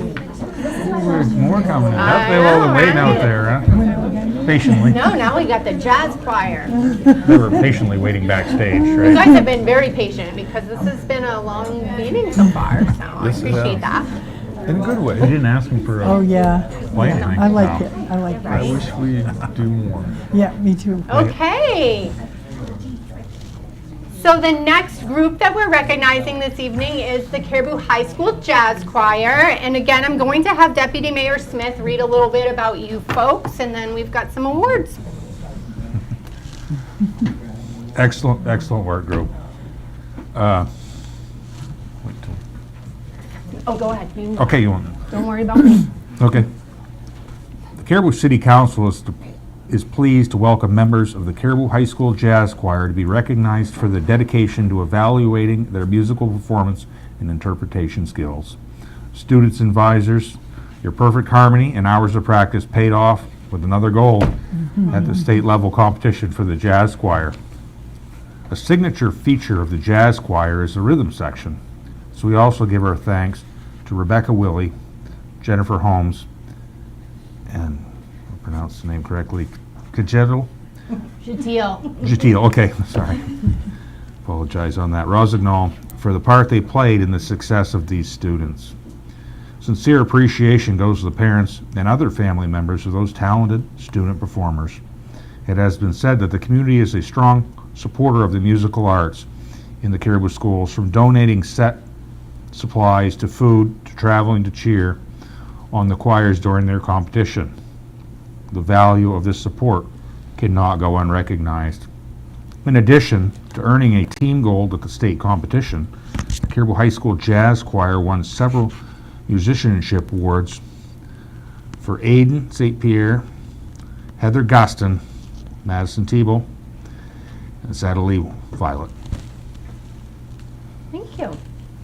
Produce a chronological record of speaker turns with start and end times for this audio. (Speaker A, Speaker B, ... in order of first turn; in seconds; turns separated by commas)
Speaker A: 0.8-3.7, Speaker B: 1.9-3.5, Speaker C: 3.2-5.0, Speaker A: 4.5-5.0, Speaker B: 4.8-6.7, Speaker A: 7.2-9.3, Speaker B: 9.0-14.1, Speaker D: 13.2-13.8, Speaker D: 14.7-15.4, Speaker A: 15.2-16.3, Speaker C: 16.0-18.9, Speaker A: 16.9-17.9, Speaker D: 18.5-20.2, Speaker C: 20.3-21.3, Speaker B: 21.1-22.1, Speaker B: 24.2-35.0, Speaker A: 38.0-39.3, Speaker A: 40.3-40.7, Speaker A: 42.0-42.4, Speaker B: 43.7-45.9, Speaker A: 44.4-45.0, Speaker A: 46.2-46.5, Speaker A: 47.8-58.6, Speaker A: 59.1-64.3, Speaker A: 64.9-67.4, Speaker A: 68.5-71.6, Speaker A: 72.1-74.7, Speaker A: 75.4-76.3, Speaker A: 77.5-80.5, Speaker B: 81.2-82.0, Speaker A: 82.0-83.3, Speaker A: 84.2-88.8, Speaker A: 89.6-94.8, Speaker A: 95.5-99.3, Speaker A: 99.8-101.8, Speaker A: 102.5-105.0, Speaker A: 105.7-107.5, Speaker A: 108.5-111.9, Speaker A: 112.6-118.8, Speaker A: 119.3-120.6, Speaker A: 121.8-123.2, Speaker A: 124.2-125.0, Speaker A: 125.6-126.5, Speaker A: 127.6-128.9, Speaker B: 130.9-131.4